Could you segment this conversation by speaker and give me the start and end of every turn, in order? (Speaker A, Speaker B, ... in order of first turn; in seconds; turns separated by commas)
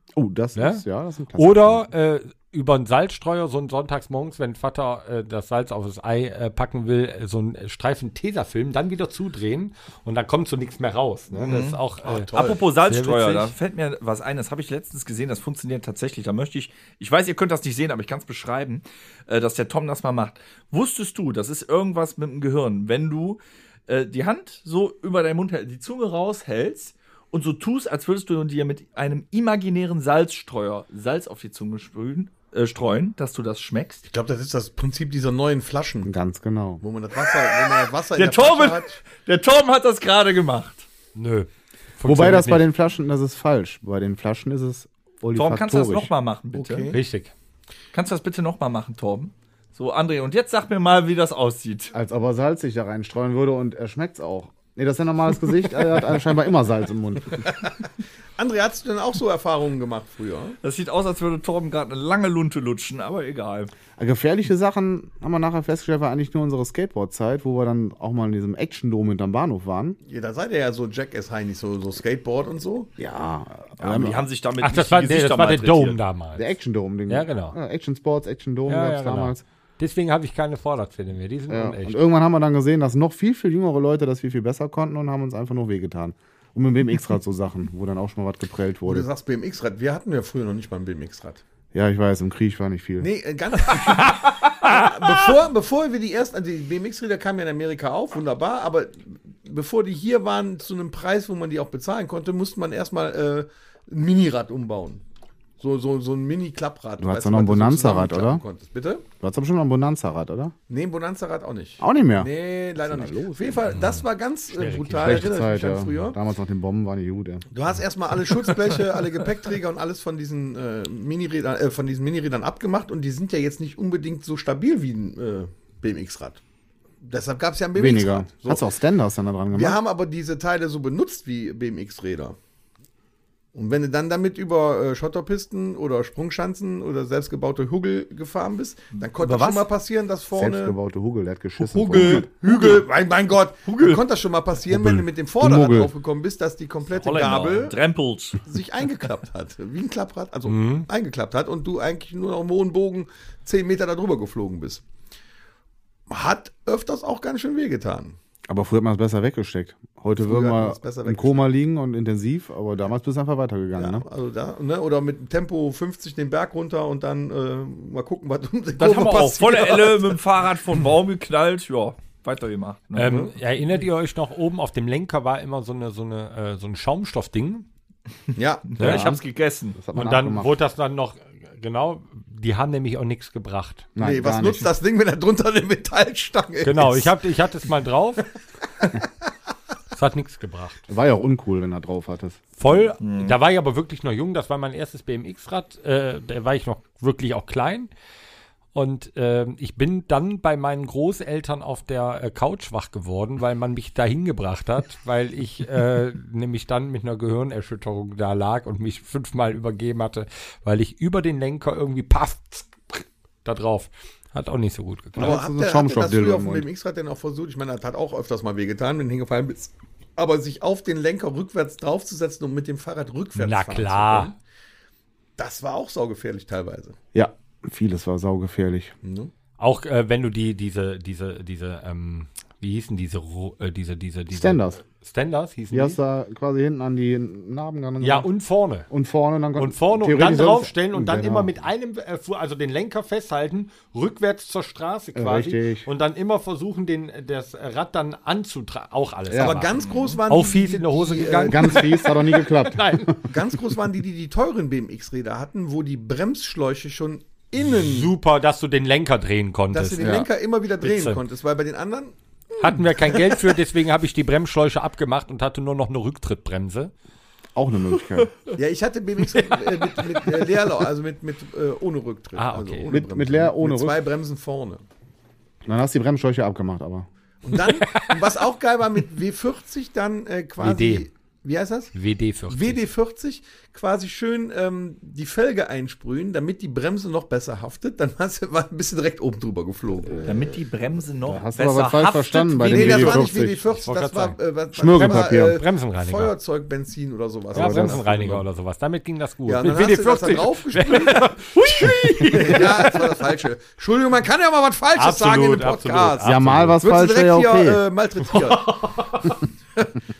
Speaker A: 0.1-1.9, Speaker B: 0.6-0.8, Speaker B: 1.4-13.5, Speaker C: 11.4-11.8, Speaker D: 12.0-12.6, Speaker C: 12.3-34.0, Speaker D: 34.1-36.1, Speaker A: 36.0-36.8, Speaker D: 36.8-39.0, Speaker C: 37.4-40.9, Speaker B: 41.1-42.7, Speaker A: 42.0-46.1, Speaker C: 45.3-46.9, Speaker D: 46.5-47.0, Speaker B: 46.9-47.3, Speaker C: 47.9-51.9, Speaker A: 51.9-57.5, Speaker D: 58.4-60.6, Speaker C: 60.6-63.7, Speaker A: 64.0-70.0, Speaker D: 70.0-72.9, Speaker A: 73.0-74.2, Speaker C: 73.8-76.0, Speaker B: 74.6-76.5, Speaker A: 76.3-79.4, Speaker B: 77.1-77.6, Speaker B: 78.7-82.0, Speaker A: 81.5-89.1, Speaker D: 88.8-91.4, Speaker A: 91.7-93.1, Speaker D: 93.0-105.0, Speaker D: 105.6-109.0, Speaker A: 107.0-108.4, Speaker A: 109.2-110.5, Speaker D: 110.7-116.2, Speaker A: 111.8-113.6, Speaker B: 113.7-115.3, Speaker A: 115.0-117.5, Speaker D: 117.5-126.4, Speaker D: 127.0-128.7, Speaker A: 127.7-129.8, Speaker D: 129.5-132.4, Speaker D: 133.5-140.8, Speaker C: 139.0-139.7, Speaker A: 140.3-142.3, Speaker D: 141.6-147.8, Speaker C: 141.9-142.9, Speaker C: 143.6-144.0, Speaker A: 144.7-145.9, Speaker C: 146.9-148.4, Speaker D: 148.4-154.8, Speaker B: 150.5-150.9, Speaker D: 156.1-158.2, Speaker A: 158.5-164.1, Speaker D: 160.2-161.5, Speaker D: 163.8-170.2, Speaker C: 168.8-173.3, Speaker B: 172.9-177.7, Speaker D: 178.3-178.8, Speaker C: 178.7-179.8, Speaker A: 178.8-179.2, Speaker A: 179.7-180.6, Speaker B: 179.9-183.9, Speaker A: 183.9-184.7, Speaker D: 184.0-187.1, Speaker B: 186.6-188.3, Speaker D: 188.8-189.0, Speaker B: 189.9-190.8, Speaker A: 190.9-192.4, Speaker B: 192.6-197.9, Speaker C: 193.0-193.3, Speaker B: 198.7-215.4, Speaker A: 215.2-216.7, Speaker D: 215.2-224.3, Speaker B: 223.3-224.3, Speaker D: 225.4-227.0, Speaker A: 227.1-228.9, Speaker D: 229.0-229.3, Speaker B: 229.6-236.0, Speaker A: 234.3-234.8, Speaker A: 235.7-238.3, Speaker B: 238.0-238.9, Speaker A: 238.9-241.6, Speaker B: 239.6-249.7, Speaker A: 245.1-245.9, Speaker A: 249.3-249.7, Speaker D: 249.4-251.9, Speaker C: 249.8-250.2, Speaker B: 250.3-253.1, Speaker A: 251.5-253.3, Speaker D: 253.3-258.1, Speaker B: 257.6-260.2, Speaker D: 259.7-263.5, Speaker A: 260.0-260.3, Speaker B: 260.8-261.2, Speaker B: 262.6-266.9, Speaker A: 267.5-268.3, Speaker D: 268.6-274.8, Speaker B: 272.4-272.9, Speaker A: 272.9-274.1, Speaker A: 275.6-277.1, Speaker D: 277.4-281.9, Speaker B: 277.6-278.2, Speaker B: 280.6-281.1, Speaker B: 281.9-282.8, Speaker D: 282.5-290.3, Speaker A: 290.1-290.4, Speaker C: 290.2-293.2, Speaker A: 291.2-293.6, Speaker D: 292.6-298.4, Speaker B: 293.7-294.4, Speaker A: 294.7-295.6, Speaker B: 294.9-296.3, Speaker B: 297.5-303.2, Speaker A: 297.5-298.0, Speaker D: 299.4-301.3, Speaker C: 301.6-302.4, Speaker D: 302.3-309.2, Speaker B: 304.9-306.8, Speaker A: 306.2-307.8, Speaker B: 308.3-309.4